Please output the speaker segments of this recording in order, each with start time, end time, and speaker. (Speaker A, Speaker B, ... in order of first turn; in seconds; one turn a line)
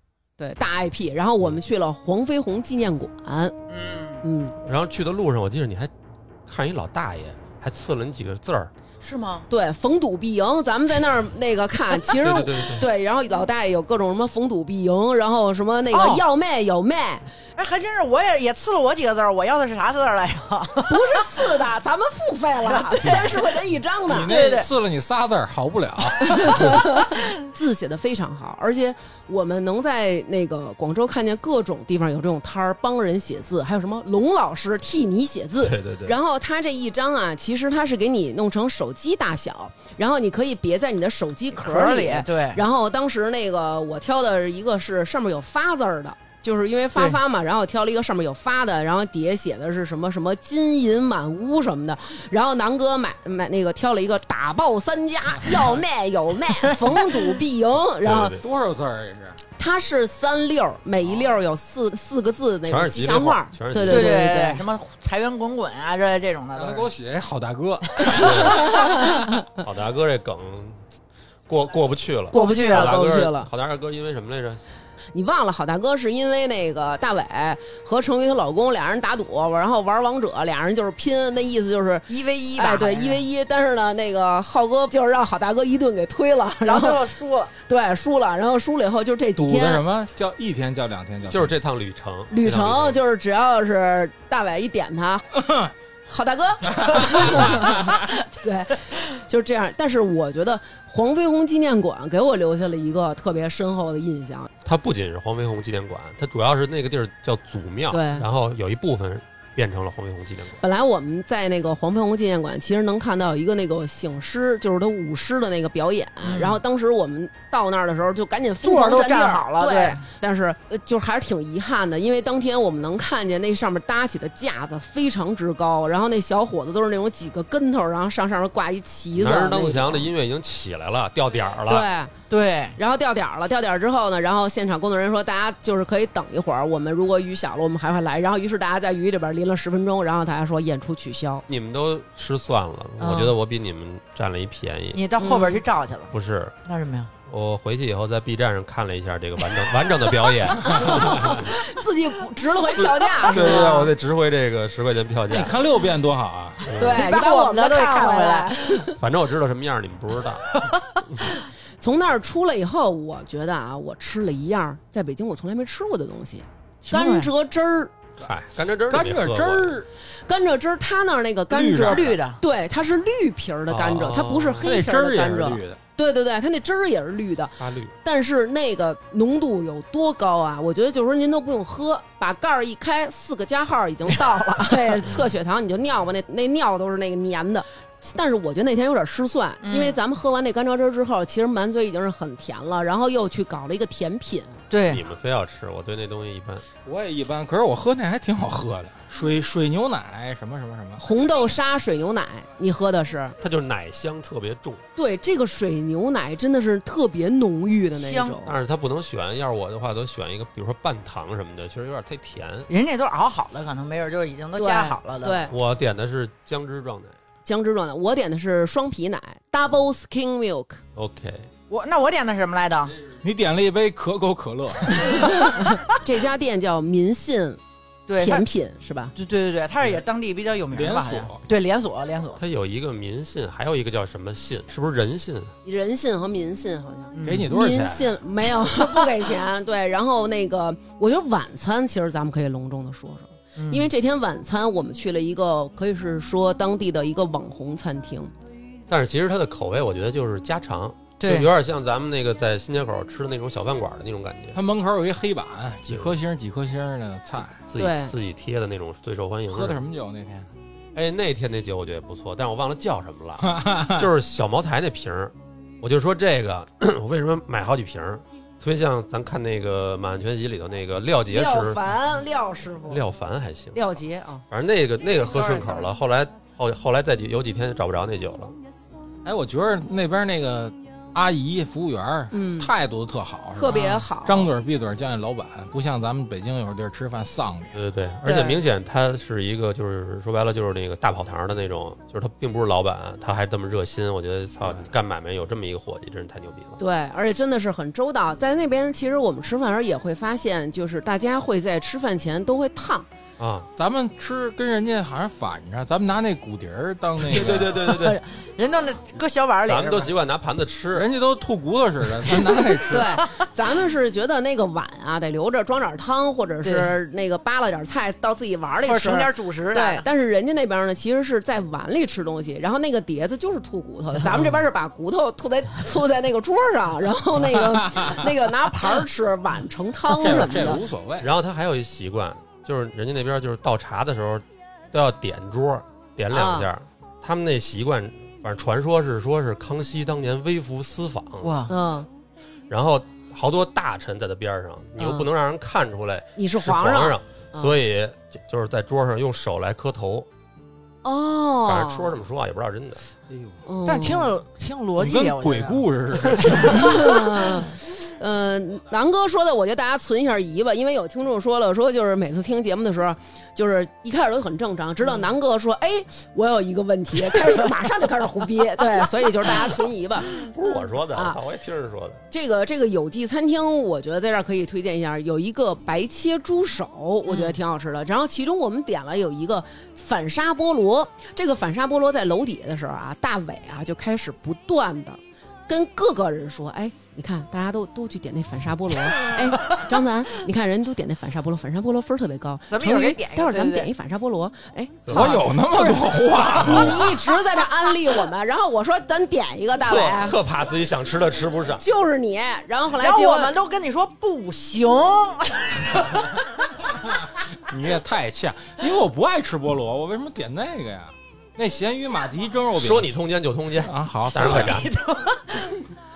Speaker A: 0.4-3.5
Speaker B: 3.7-4.2
Speaker A: 4.2-4.5
Speaker C: 4.6-5.9
Speaker C: 6.5-8.7
Speaker B: 9.0-9.5
Speaker A: 9.5-17.3
Speaker C: 12.1-12.9
Speaker B: 15.9-16.2
Speaker B: 17.6-21.2
Speaker A: 20.9-24.4
Speaker B: 22.6-24.7
Speaker D: 24.1-26.7
Speaker A: 26.2-58.4
Speaker C: 35.6-36.2
Speaker B: 41.5-42.6
Speaker C: 58.0-58.4
Speaker D: 58.4-59.4
Speaker A: 59.6-64.6
Speaker C: 62.6-64.2
Speaker B: 63.9-66.9
Speaker D: 66.5-68.5
Speaker A: 68.1-69.4
Speaker C: 68.2-68.8
Speaker C: 69.5-70.8
Speaker C: 71.5-74.6
Speaker A: 72.3-73.5
Speaker B: 72.3-72.9
Speaker A: 75.1-87.0
Speaker B: 82.1-83.2
Speaker B: 86.6-87.5
Speaker A: 87.7-89.8
Speaker D: 89.4-91.5
Speaker C: 91.3-93.0
Speaker A: 92.3-95.2
Speaker D: 95.4-95.7
Speaker A: 96.1-104.5
Speaker D: 96.8-97.7
Speaker C: 104.6-110.6
Speaker A: 107.9-108.3
Speaker A: 110.6-130.1
Speaker B: 116.2-116.6
Speaker B: 118.6-120.0
Speaker C: 129.1-131.9
Speaker A: 131.7-132.1
Speaker B: 132.3-132.8
Speaker A: 132.8-141.4
Speaker C: 141.5-145.0
Speaker B: 143.0-143.3
Speaker B: 144.9-146.1
Speaker A: 145.2-145.6
Speaker C: 146.1-146.6
Speaker B: 146.6-147.1
Speaker C: 147.3-151.5
Speaker A: 150.8-153.9
Speaker C: 152.8-155.6
Speaker D: 155.3-156.6
Speaker C: 156.7-157.0
Speaker A: 156.8-158.9
Speaker B: 156.8-158.8
Speaker C: 158.9-161.2
Speaker A: 161.8-167.9
Speaker B: 166.8-167.3
Speaker C: 168.2-169.7
Speaker D: 168.9-169.9
Speaker A: 170.2-194.6
Speaker D: 171.5-172.2
Speaker B: 171.5-172.4
Speaker C: 173.7-174.7
Speaker D: 174.6-175.8
Speaker C: 177.6-177.9
Speaker B: 189.6-190.0
Speaker B: 194.7-195.0
Speaker C: 194.8-196.6
Speaker D: 196.8-201.0
Speaker A: 201.0-203.3
Speaker C: 203.4-204.8
Speaker A: 204.9-208.6
Speaker B: 207.9-208.4
Speaker C: 208.4-212.7
Speaker B: 212.7-215.5
Speaker A: 214.6-215.5
Speaker C: 215.5-217.2
Speaker A: 217.4-220.8
Speaker C: 220.9-221.5
Speaker B: 221.7-222.9
Speaker D: 223.2-225.5
Speaker A: 225.1-227.6
Speaker B: 228.1-228.5
Speaker A: 228.2-229.1
Speaker B: 229.1-232.4
Speaker D: 230.7-231.4
Speaker C: 232.4-235.5
Speaker A: 235.6-248.3
Speaker B: 237.1-237.5
Speaker D: 237.2-238.1
Speaker B: 238.7-239.0
Speaker B: 243.6-243.9
Speaker C: 248.9-254.6
Speaker B: 251.2-251.5
Speaker D: 254.5-257.6
Speaker C: 255.9-256.1
Speaker C: 257.7-259.8
Speaker A: 257.8-258.1
Speaker D: 259.5-260.5
Speaker C: 260.9-271.8
Speaker D: 263.4-264.1
Speaker A: 271.3-273.0
Speaker C: 272.9-273.8
Speaker A: 273.7-274.4
Speaker C: 274.5-278.5
Speaker A: 275.2-275.9
Speaker D: 279.2-287.7
Speaker A: 282.3-282.7
Speaker A: 283.5-284.5
Speaker C: 287.7-296.8
Speaker B: 288.3-288.5
Speaker A: 296.8-303.1
Speaker C: 303.4-303.7
Speaker D: 303.7-307.8
Speaker C: 307.3-308.2
Speaker B: 307.4-310.1
Speaker C: 309.6-311.1
Speaker D: 310.9-313.1
Speaker B: 312.3-313.0
Speaker A: 312.9-330.8
Speaker B: 316.6-316.9
Speaker B: 318.8-320.1
Speaker B: 324.2-324.4
Speaker D: 327.6-328.3
Speaker D: 330.1-331.3
Speaker C: 331.2-341.6
Speaker A: 336.3-336.7
Speaker B: 341.4-341.7
Speaker A: 341.7-342.1
Speaker C: 342.7-350.3
Speaker A: 345.0-345.3
Speaker A: 346.4-347.8
Speaker A: 351.0-352.1
Speaker C: 351.6-353.1
Speaker D: 353.3-353.6
Speaker A: 353.6-354.3
Speaker B: 353.8-357.1
Speaker D: 355.0-357.2
Speaker A: 356.7-370.3
Speaker C: 370.3-372.2
Speaker A: 371.1-371.4
Speaker A: 372.3-400.4
Speaker B: 377.3-377.6
Speaker B: 392.7-393.9
Speaker C: 395.1-395.4
Speaker D: 395.1-397.1
Speaker C: 396.6-397.1
Speaker C: 399.8-401.8
Speaker A: 401.8-403.6
Speaker B: 403.0-406.3
Speaker D: 407.5-413.1
Speaker C: 412.7-414.9
Speaker D: 413.8-414.8
Speaker B: 414.5-415.7